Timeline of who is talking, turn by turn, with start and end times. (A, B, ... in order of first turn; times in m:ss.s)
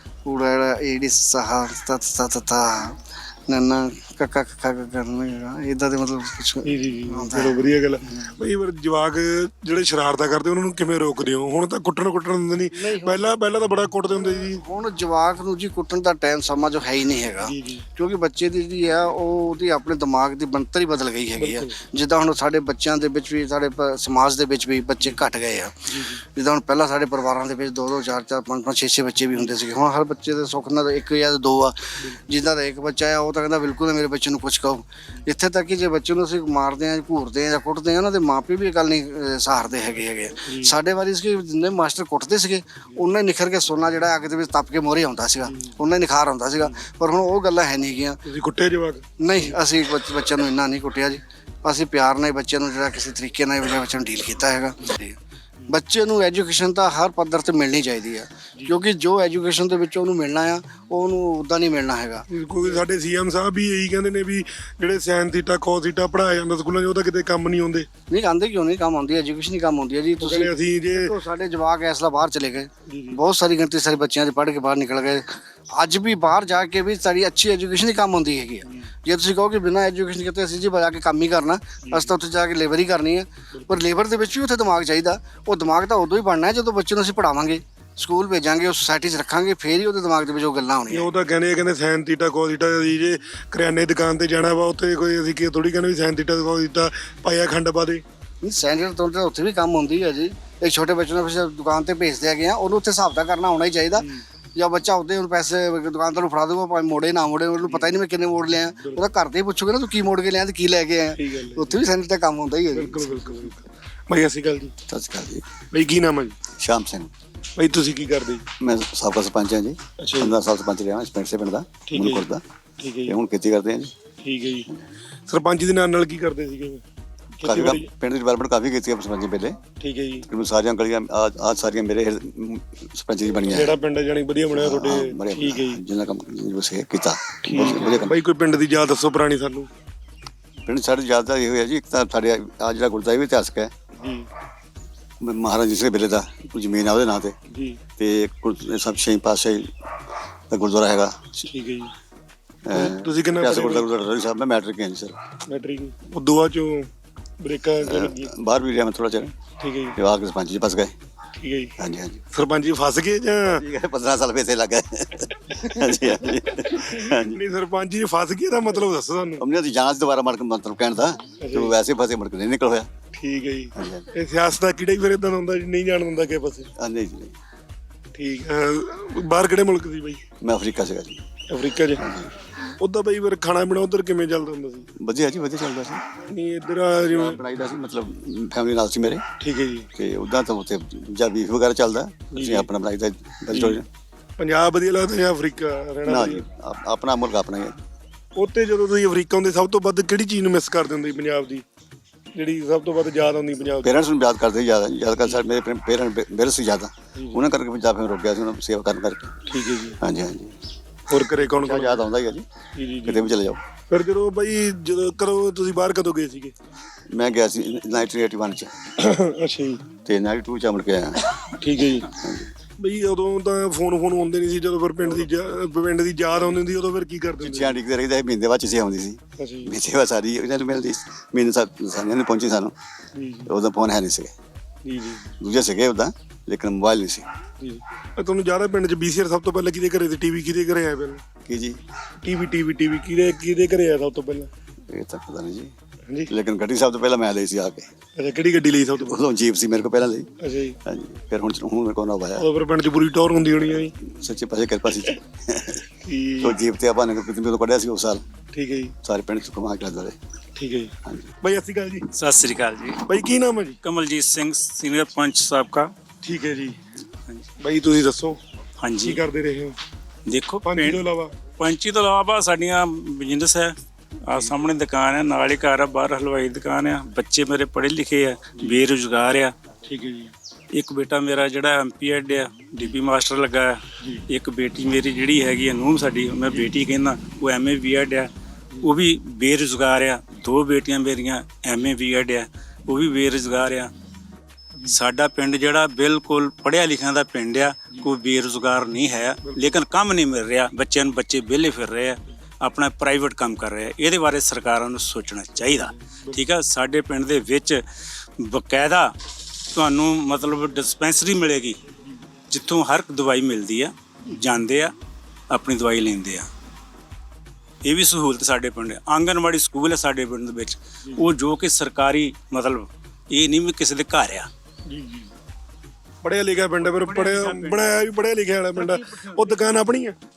0:00.2-0:08.3 A
0:06.6-0:14.6 B
0:12.8-0:13.2 A
0:14.1-0:48.2 A
0:17.4-0:17.9 B
0:21.4-0:21.7 B
0:25.9-0:26.2 B
0:40.5-0:40.7 B
0:45.5-0:45.7 B
0:48.3-0:49.6 B
0:49.2-0:55.2 A
0:55.7-1:02.3 A
1:02.3-1:07.9 B
1:08.1-1:31.1 A
1:10.2-1:11.1 B
1:12.9-1:13.2 B
1:21.8-1:22.2 B
1:30.9-1:38.0 B
1:38.4-1:53.4 A
1:44.0-1:44.2 B
1:47.6-1:48.0 B
1:51.2-1:51.8 B
1:52.7-1:54.7 B
1:54.9-1:55.5 C
1:55.7-1:56.4 B
1:56.6-1:57.1 C
1:57.6-1:58.4 B
1:58.6-2:02.4 C
2:00.0-2:00.3 B
2:01.9-2:02.3 B
2:02.8-2:03.2 B
2:03.1-2:04.0 C
2:04.2-2:04.7 B
2:05.3-2:06.8 B
2:07.4-2:07.9 B
2:07.4-2:09.6 C
2:09.8-2:10.3 B
2:10.3-2:13.8 C
2:13.5-2:15.8 B
2:14.5-2:18.2 C
2:17.4-2:19.7 B
2:20.7-2:23.7 C
2:24.0-2:24.3 B
2:25.2-2:27.4 C
2:27.5-2:27.8 B
2:28.0-2:29.7 C
2:30.5-2:31.3 C
2:31.4-2:31.9 B
2:32.7-2:35.2 C
2:32.7-2:33.9 B
2:35.5-2:36.9 B
2:37.4-2:38.3 B
2:37.8-2:39.4 C
2:39.6-2:40.0 B
2:40.0-2:41.0 C
2:41.4-2:41.7 B
2:41.8-2:42.2 C
2:42.3-2:43.6 B
2:43.6-2:47.4 C
2:45.5-2:49.4 B
2:49.4-2:52.9 C
2:51.4-2:51.7 B
2:53.1-2:56.7 B
2:53.8-2:54.1 C
2:56.8-2:57.4 C
2:58.2-3:00.2 B
3:00.4-3:01.2 C
3:01.5-3:02.0 B
3:02.0-3:02.3 C
3:02.8-3:04.9 B
3:05.0-3:06.0 C
3:06.3-3:07.4 B
3:07.1-3:09.2 C
3:09.4-3:09.9 B
3:10.0-3:13.9 C
3:12.3-3:12.7 B
3:13.5-3:13.8 B
3:14.4-3:16.4 B
3:16.1-3:17.8 C
3:18.4-3:21.6 B
3:22.4-3:23.9 B
3:23.8-3:29.4 C
3:27.2-3:27.4 B
3:29.5-3:30.0 B
3:30.0-3:30.6 C
3:31.1-3:32.0 B
3:31.5-3:32.5 C
3:32.8-3:33.3 B
3:33.0-3:33.6 C
3:33.9-3:36.5 B
3:37.1-3:38.7 C
3:39.0-3:39.8 B
3:40.0-3:41.3 C
3:41.5-3:42.1 B
3:42.1-3:42.5 C
3:42.8-3:47.8 B
3:47.4-3:52.8 C
3:49.4-3:49.7 B
3:53.2-3:53.5 B
3:53.5-3:54.3 C
3:54.8-3:55.4 B
3:55.4-3:57.3 C
3:57.6-4:01.2 B
4:01.4-4:01.8 C
4:02.2-4:04.5 B
4:04.9-4:05.7 C
4:06.3-4:07.9 C
4:08.2-4:09.2 B
4:09.1-4:10.3 C
4:10.4-4:10.8 B
4:10.9-4:12.5 C
4:12.4-4:13.9 B
4:14.0-4:15.8 C
4:16.0-4:16.6 B
4:16.4-4:18.2 C
4:18.5-4:18.9 B
4:19.0-4:20.2 C
4:20.6-4:22.1 B
4:21.0-4:21.3 C
4:22.1-4:23.2 D
4:23.1-4:23.8 B
4:23.8-4:25.9 D
4:26.2-4:26.8 B
4:27.6-4:28.4 B
4:28.8-4:29.2 D
4:29.0-4:29.8 B
4:30.3-4:31.0 D
4:30.6-4:31.3 B
4:31.6-4:33.8 D
4:34.3-4:39.6 D
4:39.9-4:40.3 B
4:40.8-4:48.3 D
4:48.8-4:53.9 D
4:54.9-5:07.8 D
4:59.5-4:59.8 B
5:05.7-5:06.4 B
5:08.4-5:09.1 D
5:09.7-5:11.8 D
5:12.5-5:14.9 D
5:15.5-5:16.5 D
5:17.8-5:24.5 D
5:24.9-5:25.3 B
5:26.2-5:30.2 B
5:26.8-5:28.1 D
5:28.8-5:29.7 D